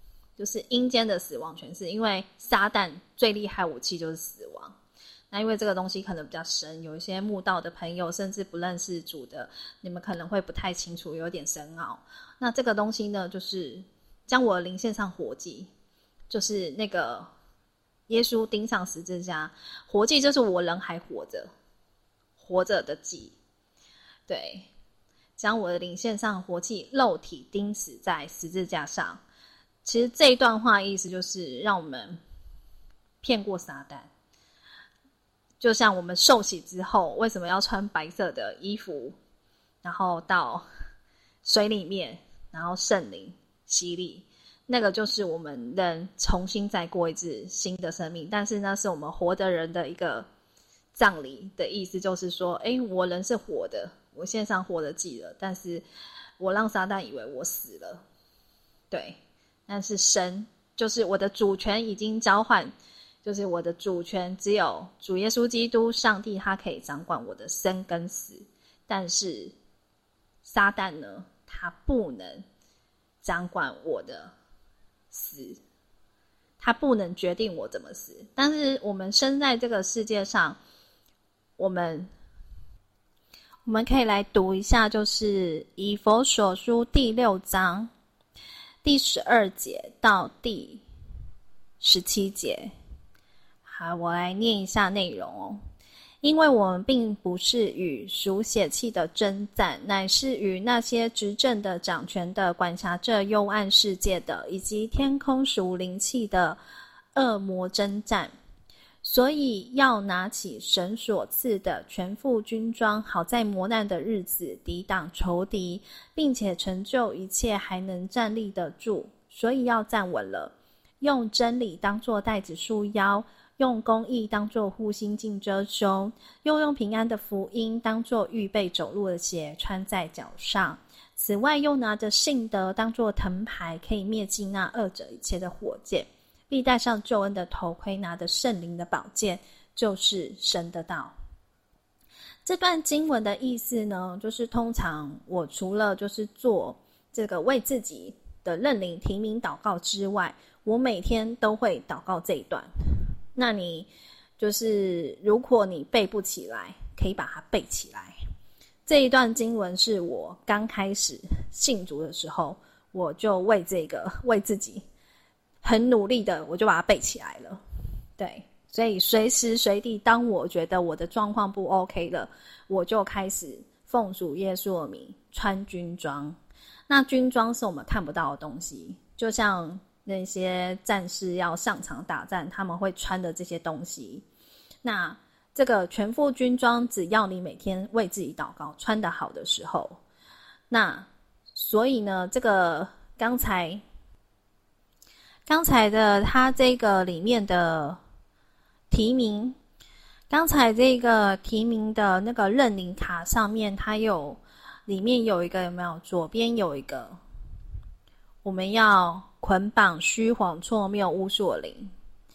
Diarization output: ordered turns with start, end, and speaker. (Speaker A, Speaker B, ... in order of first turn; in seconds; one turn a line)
Speaker A: 0.4-4.8
Speaker A: 5.3-15.7
Speaker A: 16.3-17.3
Speaker A: 18.1-21.5
Speaker A: 22.4-23.4
Speaker A: 24.3-24.7
Speaker A: 25.4-29.2
Speaker A: 29.8-32.2
Speaker A: 33.2-34.1
Speaker A: 35.6-39.2
Speaker A: 39.8-40.6
Speaker A: 41.4-50.3
Speaker A: 50.9-55.8
Speaker A: 56.4-58.0
Speaker A: 58.9-62.7
Speaker A: 63.2-69.5
Speaker A: 70.4-72.5
Speaker A: 73.2-74.3
Speaker A: 75.1-75.6
Speaker A: 76.6-80.6
Speaker A: 81.6-82.1
Speaker A: 83.7-87.9
Speaker A: 88.8-90.8
Speaker A: 91.8-92.7
Speaker A: 93.7-95.6
Speaker A: 96.2-106.6
Speaker A: 107.2-108.3
Speaker A: 109.0-141.2
Speaker A: 142.5-152.7
Speaker A: 153.4-158.2
Speaker A: 158.9-164.8
Speaker A: 165.6-167.6
Speaker A: 168.2-176.4
Speaker A: 176.9-184.2
Speaker A: 184.8-190.0
Speaker A: 190.7-193.8
Speaker A: 195.5-198.0
Speaker A: 198.9-199.6
Speaker A: 200.3-207.2
Speaker A: 208.4-211.9